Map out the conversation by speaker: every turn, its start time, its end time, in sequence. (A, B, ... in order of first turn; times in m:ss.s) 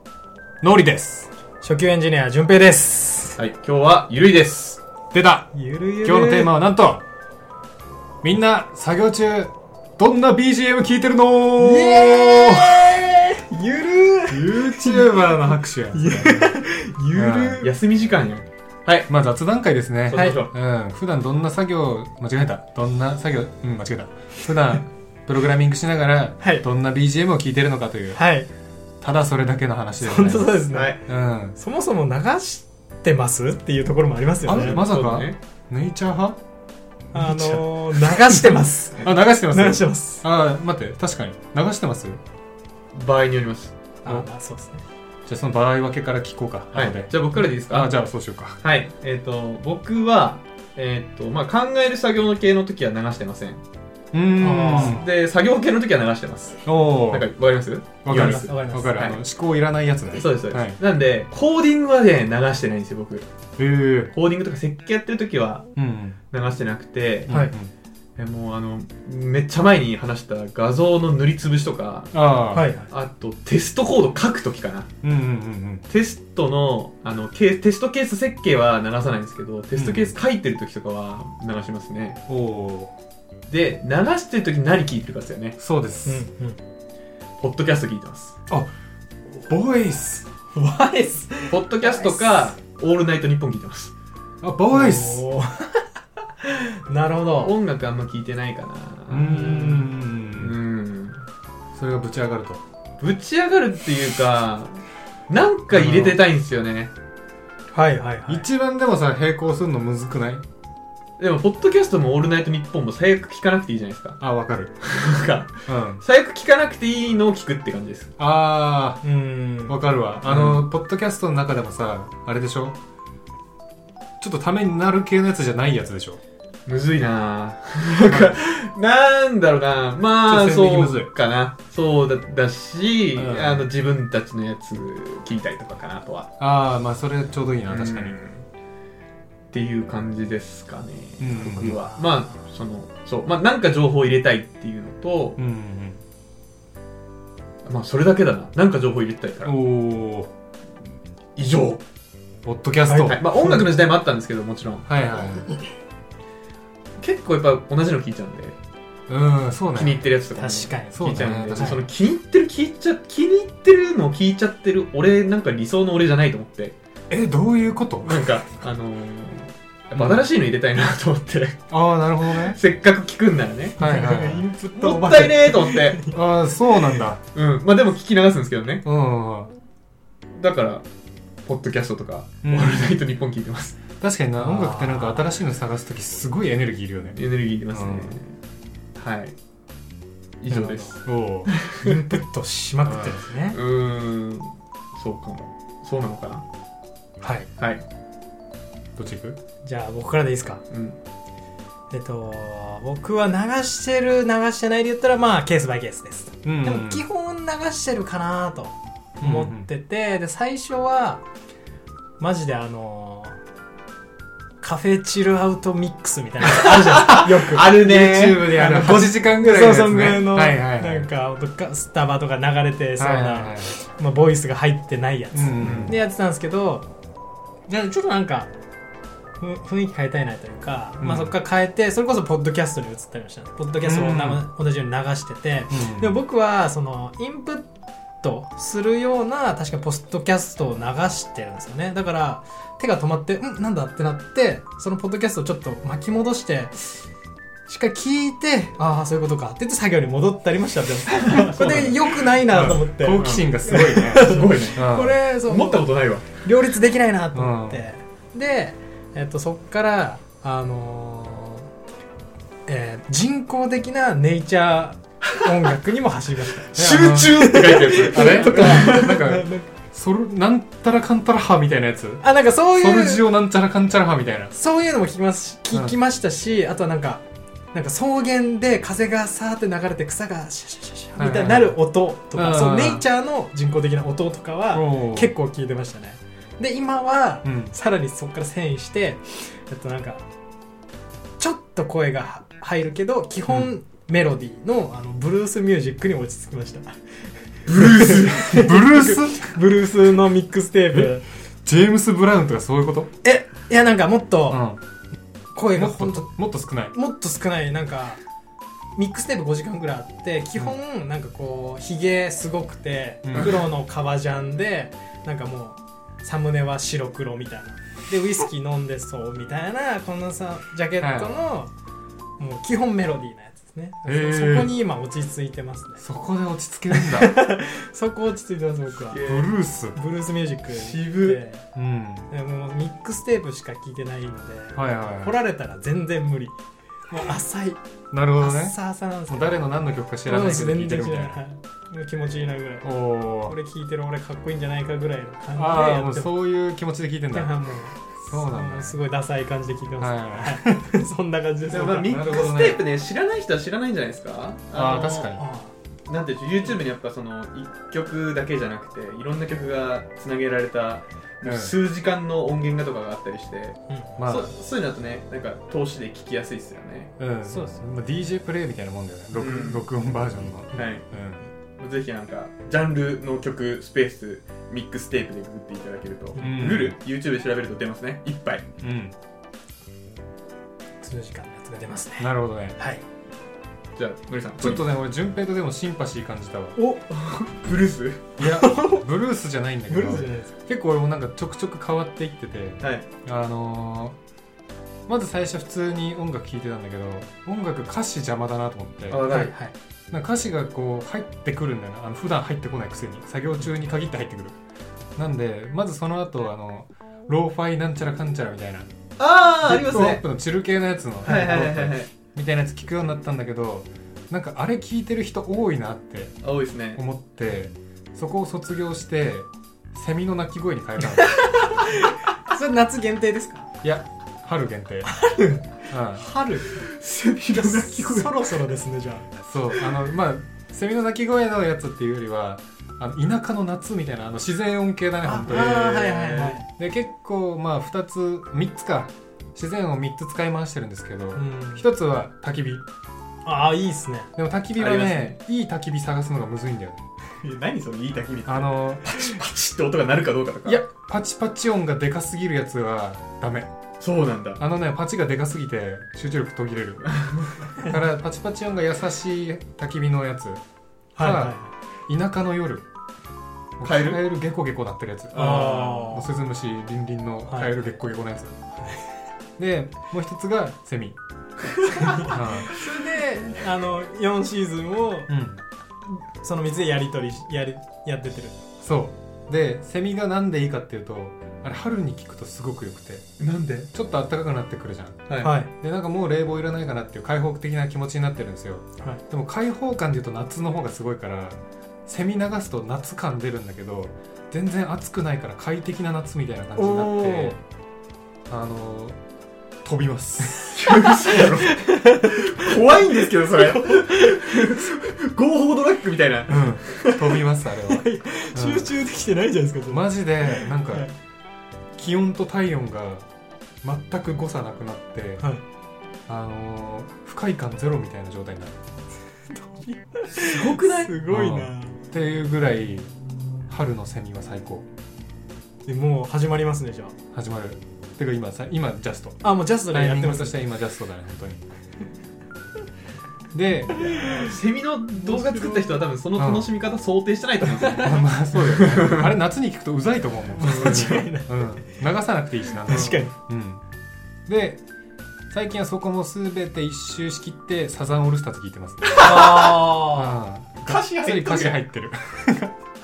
0:00.6-0:01.3 A
0:01.6-0:03.4 B
0:03.4-0:04.8 C
0:05.1-0:05.5 A
0:05.5-0:06.5 B
0:06.0-0:07.0 A
0:08.2-0:13.0 A
0:11.6-0:17.7 B
0:14.3-0:16.6 A
0:17.1-0:17.7 A
0:17.6-0:19.1 C
0:19.1-0:28.2 A
0:20.1-0:20.5 C
0:20.1-0:20.4 B
0:26.4-0:26.6 B
0:28.1-0:28.5 B
0:29.0-0:31.6 A
0:30.0-0:34.8 B
0:30.7-0:31.0 C
0:34.4-0:36.4 A
0:34.5-0:35.4 C
0:37.1-0:42.2 A
0:37.1-0:40.2 B
0:42.9-0:43.8 C
0:44.0-0:44.8 B
0:45.3-0:48.6 A
0:46.7-0:47.9 C
0:48.6-0:53.6 C
0:54.1-0:55.0 A
0:54.4-0:55.0 B
0:54.7-0:59.2 C
0:56.6-0:57.3 A
0:58.0-1:00.8 A
0:58.1-0:59.0 B
1:00.2-1:03.3 C
1:03.6-1:04.1 A
1:04.1-1:05.6 C
1:05.8-1:06.2 A
1:06.3-1:07.3 C
1:07.3-1:07.7 A
1:08.2-1:12.2 C
1:12.1-1:12.7 A
1:12.5-1:12.9 B
1:12.9-1:14.9 C
1:15.0-1:15.9 A
1:15.9-1:22.2 C
1:19.7-1:20.1 A
1:22.3-1:22.9 A
1:23.5-1:25.6 C
1:25.6-1:26.2 A
1:26.0-1:26.6 B
1:27.4-1:28.4 C
1:29.3-1:30.3 A
1:30.5-1:32.5 B
1:31.5-1:33.9 C
1:34.4-1:35.2 A
1:34.7-1:35.9 B
1:36.4-1:37.5 B
1:37.4-1:39.7 C
1:39.1-1:40.5 A
1:39.3-1:39.8 B
1:40.3-1:41.2 C
1:41.7-1:42.6 A
1:43.0-1:46.9 C
1:45.7-1:46.2 A
1:47.7-1:48.5 B
1:48.3-1:50.4 A
1:51.2-1:54.2 C
1:54.2-1:54.8 A
1:54.8-1:58.1 C
1:55.7-1:56.0 A
1:58.2-1:59.0 A
1:59.0-1:59.8 B
1:59.7-2:02.8 A
2:00.2-2:00.6 C
2:04.2-2:06.2 A
2:06.6-2:16.3 C
2:08.1-2:08.4 A
2:10.2-2:11.1 A
2:13.1-2:13.7 A
2:16.4-2:18.2 A
2:17.7-2:18.4 C
2:19.5-2:25.4 C
2:21.2-2:21.8 A
2:22.0-2:22.3 B
2:25.4-2:26.0 A
2:27.6-2:29.5 C
2:29.4-2:30.3 A
2:31.4-2:31.8 C
2:32.4-2:33.8 A
2:32.9-2:33.1 B
2:33.0-2:34.8 C
2:34.9-2:35.5 A
2:37.0-2:38.6 C
2:39.1-2:40.1 A
2:39.7-2:46.8 C
2:40.3-2:41.0 B
2:40.9-2:41.8 A
2:47.1-2:48.3 A
2:48.0-2:51.6 C
2:50.0-2:50.2 A
2:51.7-2:52.6 A
2:52.4-2:53.8 C
2:53.8-2:56.2 B
2:53.8-2:54.4 A
2:54.7-2:56.0 C
2:56.1-2:57.2 A
2:56.8-2:57.0 B
2:57.3-2:58.8 C
2:58.8-2:59.5 A
3:00.4-3:00.8 C
3:01.4-3:03.8 C
3:02.4-3:03.0 A
3:04.0-3:08.2 A
3:04.4-3:05.3 B
3:07.1-3:08.4 C
3:09.0-3:09.3 C
3:10.4-3:11.8 C
3:10.5-3:11.6 A
3:11.8-3:13.6 B
3:12.8-3:13.2 A
3:13.5-3:16.4 C
3:17.2-3:17.5 B
3:17.6-3:17.8 C
3:19.0-3:19.4 A
3:19.6-3:20.6 B
3:20.7-3:21.0 C
3:21.9-3:31.2 B
3:26.4-3:27.0 A
3:29.2-3:29.7 A
3:32.2-3:33.4 B
3:34.6-3:37.7 B
3:36.4-3:39.0 C
3:37.6-3:41.1 A
3:38.5-3:46.9 B
3:43.0-3:43.7 A
3:45.3-3:46.0 A
3:45.6-3:46.0 C
3:47.7-3:48.5 B
3:49.4-3:57.7 B
3:51.0-3:51.3 A
3:53.8-3:54.4 A
3:55.7-3:56.2 A
3:58.2-4:07.0 B
4:07.7-4:21.7 B
4:11.1-4:12.4 C
4:12.5-4:15.2 A
4:13.2-4:13.4 C
4:14.1-4:16.4 C
4:17.3-4:17.8 A
4:22.7-4:26.7 B
4:26.6-4:29.2 C
4:26.7-4:32.2 A
4:27.3-4:29.7 B
4:32.2-4:33.3 B
4:32.7-4:34.5 A
4:34.5-4:37.2 B
4:35.7-4:36.0 A
4:37.7-4:50.2 B
4:41.2-4:41.8 A
4:42.3-4:43.0 A
4:44.7-4:45.3 A
4:47.4-4:47.7 A
4:51.4-5:01.2 B
4:53.5-4:53.7 A
4:57.7-4:58.6 C
4:58.1-4:59.6 A
5:00.9-5:03.1 A
5:03.2-5:04.6 B
5:04.5-5:04.8 A
5:05.5-5:08.2 B
5:05.7-5:06.9 A
5:09.0-5:21.7 B
5:13.2-5:13.6 A
5:21.0-5:21.5 A
5:22.4-5:26.0 B
5:24.0-5:24.7 A
5:26.0-5:27.4 A
5:26.9-5:29.2 B
5:29.1-5:29.5 C
5:29.2-5:30.0 A
5:29.9-5:31.6 B
5:30.7-5:31.4 C
5:31.7-5:32.3 A
5:32.3-5:36.6 B
5:34.8-5:35.4 A
5:37.1-5:37.8 B
5:38.1-5:38.7 A
5:38.4-5:39.6 B
5:39.3-5:41.4 A
5:40.2-5:46.3 B
5:42.8-5:43.6 A
5:45.5-5:47.5 A
5:47.3-5:52.2 B
5:48.2-5:49.0 A
5:50.0-5:50.9 A
5:51.7-5:55.3 C
5:52.1-5:52.8 A
5:54.7-5:55.4 A
5:55.3-5:55.7 B
5:56.1-6:07.1 C
6:01.4-6:01.7 A
6:04.2-6:04.5 A
6:07.2-6:11.4 A
6:07.4-6:07.8 B
6:09.3-6:09.8 C
6:10.7-6:11.1 C
6:11.8-6:18.6 C
6:16.4-6:17.0 A
6:18.8-6:19.1 A
6:21.0-6:23.0 B
6:22.2-6:22.8 A
6:24.0-6:24.8 C
6:24.6-6:26.8 A
6:26.8-6:27.1 B
6:27.2-6:28.3 C
6:28.4-6:34.2 A
6:28.4-6:29.0 B
6:29.9-6:30.5 B
6:32.8-6:33.1 C
6:35.1-6:39.3 A
6:39.1-6:39.5 C
6:39.3-6:39.7 B
6:40.1-6:44.6 A
6:45.2-6:48.9 A
6:49.2-6:50.2 C
6:49.6-6:56.4 A
6:51.2-6:52.1 C
6:56.4-6:57.0 C
6:56.9-7:01.6 A
7:01.3-7:03.7 B
7:03.8-7:05.1 A
7:05.0-7:06.8 B
7:05.9-7:06.2 A
7:06.7-7:08.5 C
7:07.5-7:09.3 B
7:09.4-7:22.8 A
7:15.2-7:16.7 B
7:16.3-7:16.6 C
7:21.3-7:21.8 B
7:23.4-7:24.3 B
7:24.4-7:27.1 A
7:24.8-7:25.4 C
7:27.4-7:30.8 C
7:28.4-7:29.4 A
7:30.6-7:33.7 A
7:34.0-7:34.6 C
7:34.6-7:37.2 A
7:37.8-7:40.6 A
7:41.2-7:41.7 B
7:41.2-7:41.6 A
7:42.1-7:42.8 A
7:43.8-7:48.6 A
7:43.8-7:44.2 C
7:45.3-7:45.8 C
7:45.3-7:46.3 B
7:47.5-7:47.7 B
7:48.8-7:49.0 B
7:49.6-7:51.2 A
7:51.6-7:52.8 C
7:52.0-7:55.3 B
7:52.2-7:52.7 A
7:55.3-7:55.6 A
7:56.1-7:58.6 B
7:58.8-8:03.3 A
8:03.4-8:03.9 C
8:03.9-8:17.6 A
8:05.3-8:05.5 C
8:05.4-8:05.7 B
8:16.7-8:17.6 B
8:18.5-8:19.2 A
8:19.8-8:20.9 A
8:20.8-8:27.2 C
8:21.4-8:24.8 B
8:26.5-8:28.9 A
8:27.9-8:31.1 B
8:29.9-8:31.0 A
8:32.0-8:33.3 A
8:33.8-8:35.5 A
8:35.4-8:35.6 B
8:36.3-8:38.8 A
8:39.5-8:42.0 B
8:40.3-8:41.1 C
8:41.3-8:43.1 A
8:43.7-8:44.9 A
8:45.8-8:47.2 B
8:47.3-8:51.6 A
8:49.4-8:50.6 B
8:53.5-8:54.1 A
8:53.9-8:59.2 C
8:54.0-8:54.5 B
8:55.2-8:56.0 B
8:56.4-8:56.7 A
8:58.0-9:03.8 A
9:00.4-9:01.9 B
9:00.6-9:01.2 C
9:02.8-9:03.3 B
9:04.5-9:04.8 A
9:05.5-9:12.7 A
9:09.1-9:10.4 B
9:09.2-9:09.9 C
9:10.8-9:11.8 C